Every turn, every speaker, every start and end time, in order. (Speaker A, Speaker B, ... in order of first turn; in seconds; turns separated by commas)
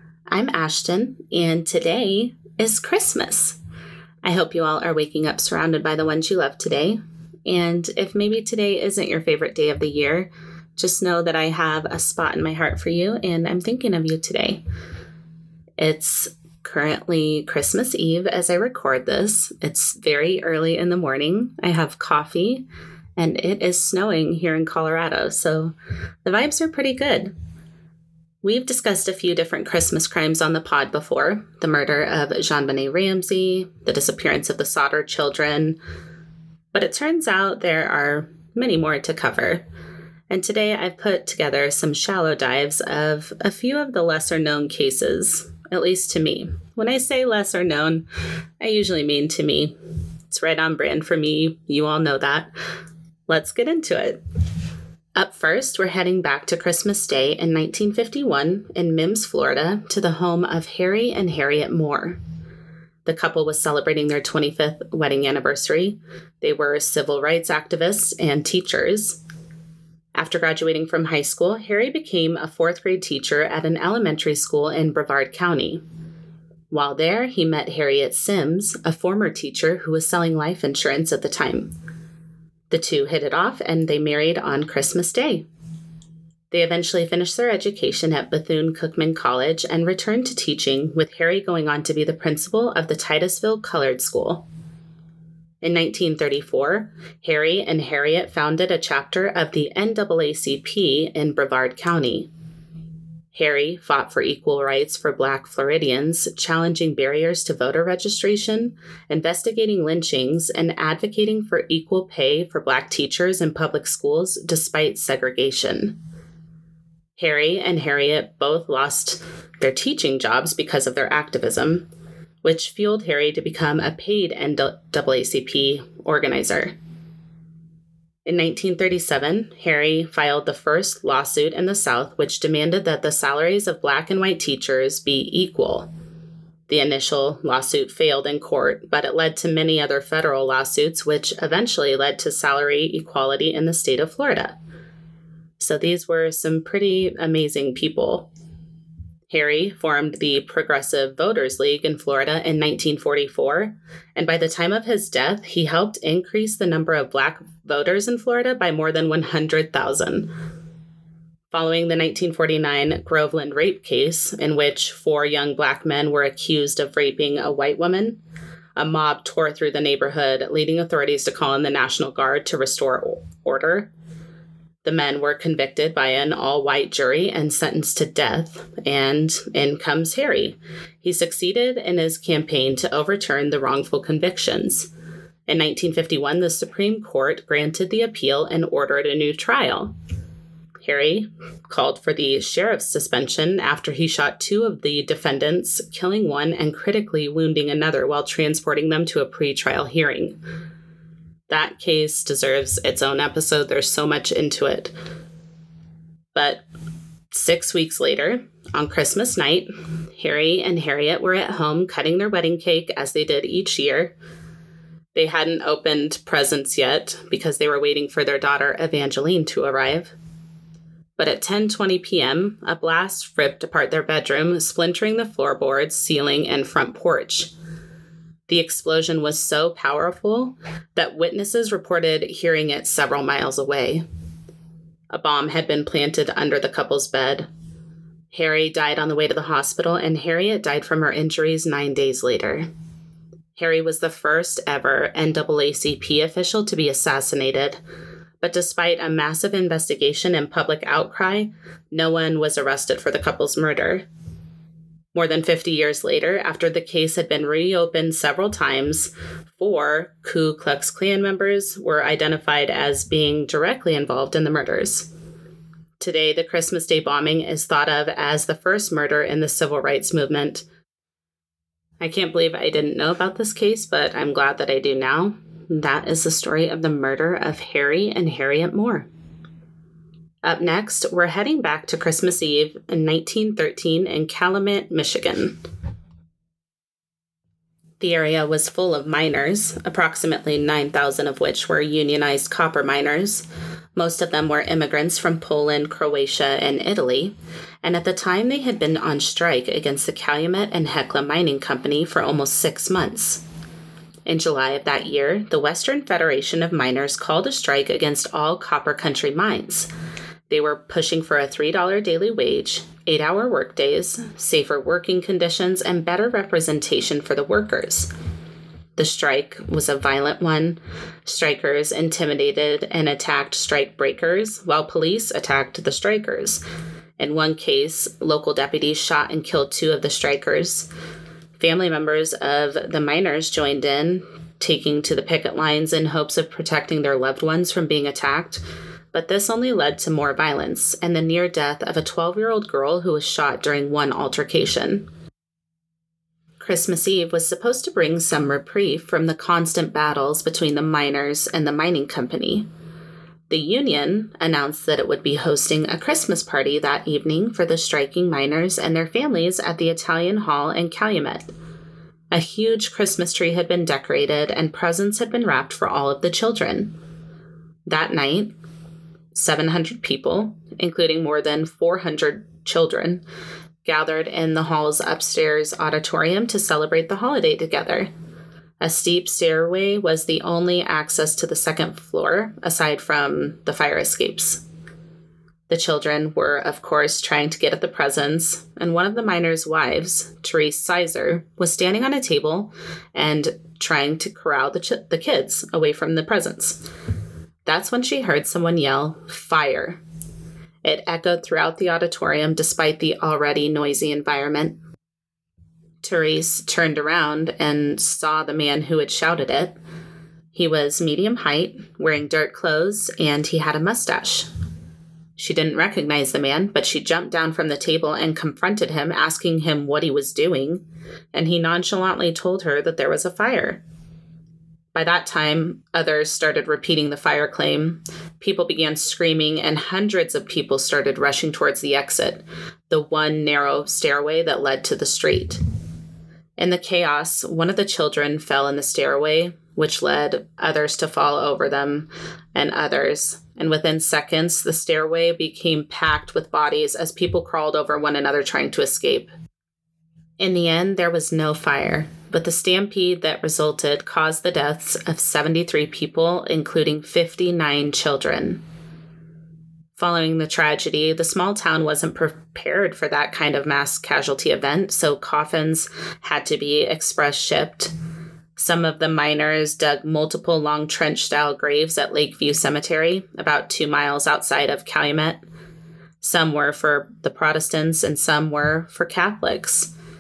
Speaker A: 0.3-3.6, Speaker A: 4.2-14.6, Speaker A: 15.8-22.7, Speaker A: 23.2-27.3, Speaker A: 28.4-35.8, Speaker A: 36.7-39.6, Speaker A: 40.3-48.1, Speaker A: 48.6-49.8, Speaker A: 50.3-52.5, Speaker A: 53.3-54.2, Speaker A: 55.2-62.2, Speaker A: 63.0-69.2, Speaker A: 70.2-75.8, Speaker A: 76.7-81.7, Speaker A: 82.7-85.5, Speaker A: 86.5-94.5, Speaker A: 95.6-102.3, Speaker A: 103.3-116.0, Speaker A: 117.2-121.9, Speaker A: 122.4-126.8, Speaker A: 128.2-135.9, Speaker A: 136.7-144.6, Speaker A: 145.6-148.3, Speaker A: 149.3-160.3, Speaker A: 161.5-168.2, Speaker A: 168.8-173.9, Speaker A: 174.8-184.9, Speaker A: 185.5-189.9, Speaker A: 190.8-200.4, Speaker A: 201.5-204.9, Speaker A: 206.3-206.7, Speaker A: 207.3-214.1, Speaker A: 215.2-220.2, Speaker A: 221.2-227.5, Speaker A: 228.5-234.0, Speaker A: 235.1-237.5, Speaker A: 238.3-242.7, Speaker A: 243.6-247.8, Speaker A: 248.4-254.1, Speaker A: 255.1-265.1, Speaker A: 266.0-270.7, Speaker A: 272.0-279.1, Speaker A: 280.4-285.6, Speaker A: 288.0-303.4, Speaker A: 304.3-309.9, Speaker A: 310.5-318.1, Speaker A: 319.0-326.6, Speaker A: 327.2-330.9, Speaker A: 331.6-345.1, Speaker A: 346.6-352.7, Speaker A: 353.5-361.5, Speaker A: 362.3-366.9, Speaker A: 367.9-368.5, Speaker A: 369.3-373.2, Speaker A: 373.8-378.1, Speaker A: 378.8-384.6, Speaker A: 385.7-396.8, Speaker A: 397.6-400.0, Speaker A: 400.8-404.8, Speaker A: 406.0-409.8, Speaker A: 410.5-414.5, Speaker A: 415.4-420.8, Speaker A: 421.3-423.8, Speaker A: 424.9-435.6, Speaker A: 436.6-449.3, Speaker A: 450.4-458.6, Speaker A: 460.0-467.9, Speaker A: 468.6-475.4, Speaker A: 476.2-479.9